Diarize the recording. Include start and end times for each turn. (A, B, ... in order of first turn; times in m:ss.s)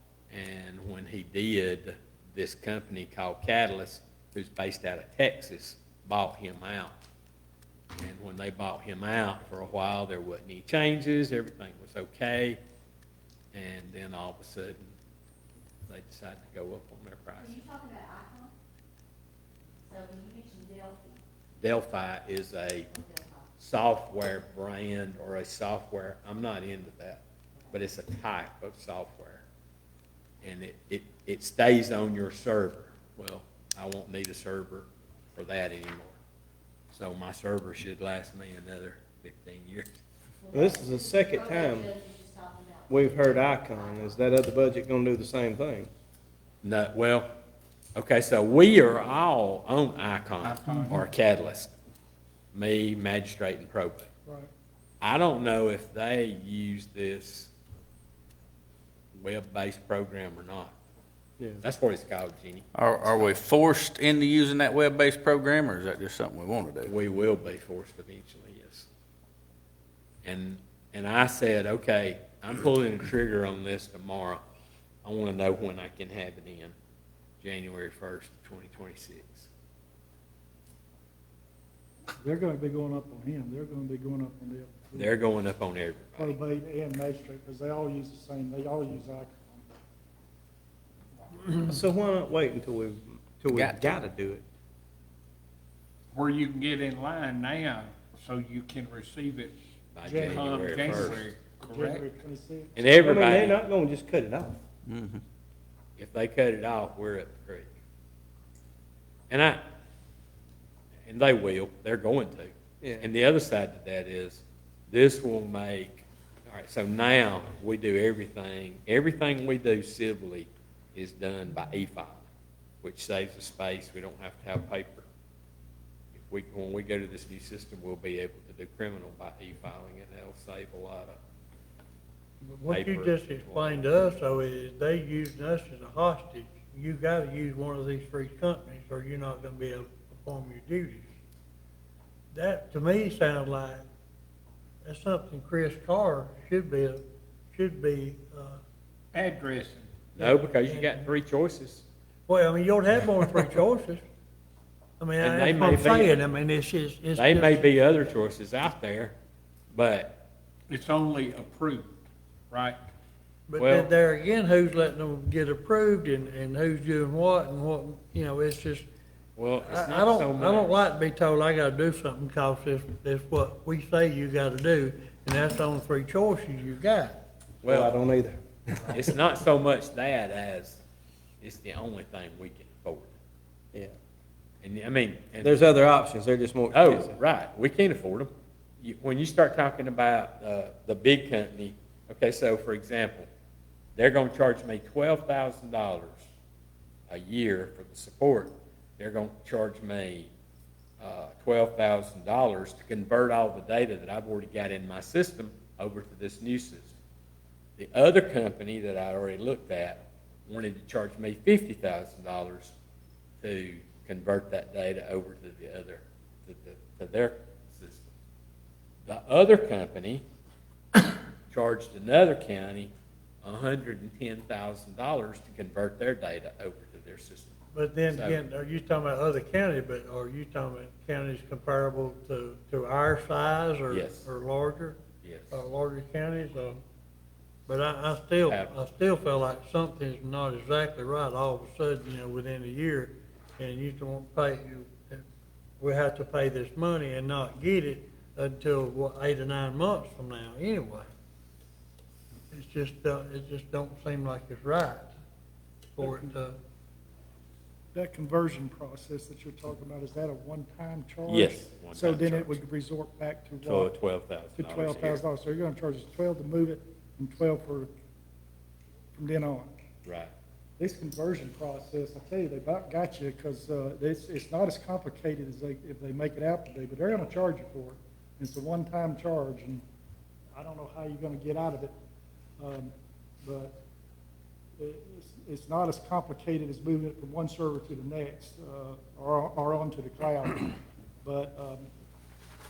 0:00.3-0:06.9 A
0:07.9-0:12.6 A
0:13.5-0:14.9 A
0:15.9-0:17.6 A
0:17.4-0:18.5 B
0:19.9-0:21.2 B
0:21.6-0:22.9 A
0:22.9-0:23.4 B
0:23.6-0:29.4 A
0:30.4-0:36.2 A
0:36.9-0:39.9 A
0:40.4-0:44.2 B
0:40.5-0:41.9 C
0:42.9-0:45.9 C
0:46.6-0:47.3 A
0:48.0-0:51.7 A
0:50.4-0:51.0 D
0:52.5-0:54.1 A
0:55.0-0:57.5 A
0:59.2-1:00.7 A
1:01.6-1:03.3 A
1:02.7-1:06.9 E
1:06.8-1:08.9 A
1:10.2-1:14.4 A
1:15.0-1:16.7 A
1:17.4-1:19.5 A
1:22.2-1:25.1 F
1:24.9-1:26.4 A
1:26.2-1:29.6 F
1:31.5-1:34.4 C
1:33.5-1:34.0 E
1:36.1-1:39.5 D
1:39.9-1:41.2 A
1:40.0-1:42.8 F
1:40.1-1:42.0 D
1:42.8-1:43.6 A
1:43.0-1:44.6 C
1:44.9-1:45.2 E
1:46.0-1:47.7 A
1:49.3-1:49.6 A
1:51.1-2:02.2 A
1:52.8-1:53.1 C
2:02.8-2:05.0 A
2:06.3-2:11.2 A
2:12.5-2:21.1 G
2:12.7-2:13.8 A
2:22.3-2:23.8 G
2:24.8-2:27.0 G
2:27.5-2:28.6 G
2:29.1-2:29.9 D
2:30.2-2:31.8 A
2:30.2-2:31.1 G
2:32.3-2:34.0 G
2:35.0-2:37.6 G
2:35.2-2:36.1 A
2:37.2-2:39.1 A
2:39.7-2:40.2 A
2:40.7-2:41.9 D
2:42.5-2:42.8 D
2:43.5-2:48.8 G
2:43.6-2:43.9 A
2:49.4-2:50.7 A
2:49.6-2:57.2 G
2:57.6-2:58.0 A
2:57.6-2:59.0 C
2:58.9-3:00.8 A
3:01.4-3:03.1 A
3:04.6-3:05.7 A
3:05.4-3:07.2 C
3:06.7-3:08.3 A
3:08.8-3:13.3 A
3:14.0-3:16.2 A
3:17.1-3:20.3 A
3:21.0-3:26.9 A
3:27.8-3:32.7 A
3:33.4-3:38.1 A
3:39.0-3:40.2 A
3:41.5-3:42.9 A
3:43.4-3:47.5 A
3:47.7-3:55.0 G
3:48.1-3:48.4 A
3:53.9-3:54.2 A
3:55.2-3:55.6 A
3:55.5-3:56.8 G
3:57.7-4:05.2 G
3:58.4-3:58.7 A
4:05.8-4:11.1 G
4:12.5-4:15.1 G
4:16.0-4:16.6 G
4:16.0-4:16.3 F
4:17.9-4:23.9 F
4:21.3-4:22.6 A
4:23.6-4:25.2 A
4:24.6-4:27.9 F
4:29.1-4:29.7 F
4:30.0-4:30.3 A
4:30.8-4:39.8 F
4:40.5-4:41.9 F
4:42.6-4:42.9 F
4:43.4-4:43.8 F
4:44.8-4:51.9 F